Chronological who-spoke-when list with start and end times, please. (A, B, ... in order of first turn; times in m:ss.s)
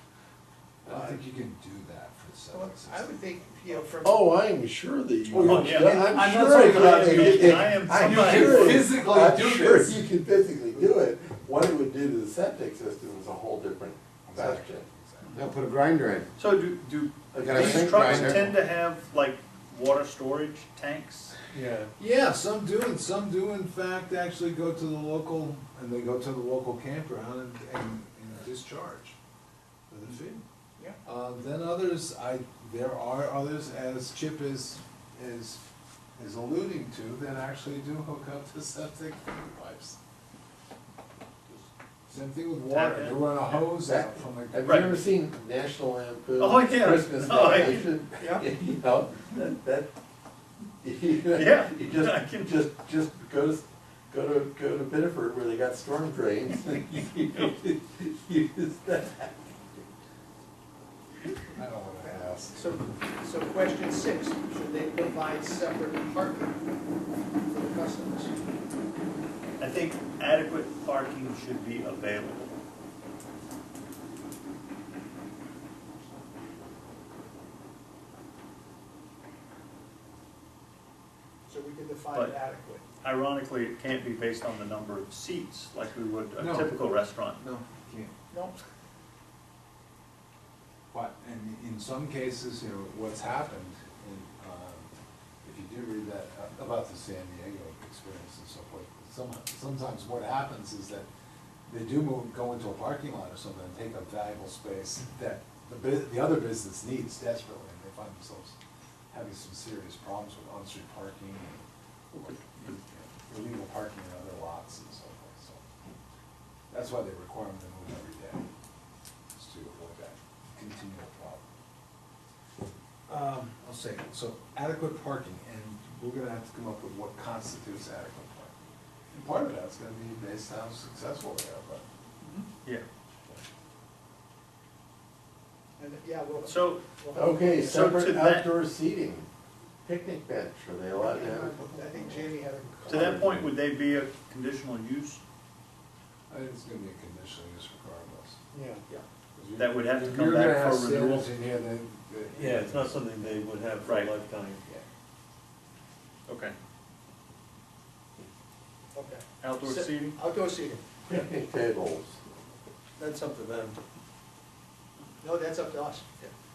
0:00.8-0:01.2 A
0:00.8-0:03.0 B
0:02.5-0:04.2 C
0:04.0-0:14.8 A
0:05.3-0:10.0 B
0:05.4-0:08.8 D
0:14.2-0:15.5 B
0:15.3-0:16.3 E
0:16.4-0:21.3 D
0:17.3-0:18.4 A
0:17.4-0:18.5 E
0:21.5-0:21.9 F
0:22.0-0:29.2 B
0:29.9-0:30.4 B
0:31.0-0:35.6 B
0:36.2-0:40.0 B
0:42.1-0:44.9 B
0:42.7-0:43.6 D
0:43.8-0:49.9 A
0:44.6-0:44.9 D
0:46.4-0:47.9 D
0:48.2-0:48.4 C
0:50.8-0:59.8 A
0:51.3-0:52.6 D
1:01.5-1:02.7 B
1:02.0-1:06.6 C
1:07.5-1:08.3 C
1:09.6-1:12.5 D
1:21.5-1:22.8 C
1:23.0-1:27.4 D
1:26.4-1:28.1 B
1:28.3-1:28.6 C
1:30.9-1:34.9 B
1:35.4-1:41.1 B
1:41.6-1:48.6 B
1:49.1-1:55.6 B
1:56.7-1:58.4 B
1:59.3-2:01.5 B
2:03.1-2:08.5 B
2:09.1-2:11.8 B
2:12.2-2:12.5 C
2:15.8-2:17.8 C
2:16.4-2:16.8 D
2:17.1-2:19.3 A
2:17.5-2:18.5 D
2:19.8-2:23.5 A
2:21.0-2:23.2 C
2:22.9-2:25.2 D
2:26.3-2:28.4 B
2:28.5-2:28.8 F
2:29.4-2:33.0 B
2:29.6-2:31.3 D
2:32.3-2:34.6 F
2:33.8-2:34.1 D
2:36.3-2:36.5 D
2:38.9-2:40.8 C
2:39.4-2:40.2 D
2:41.0-2:42.2 A
2:43.0-2:43.8 F
2:45.2-2:46.1 C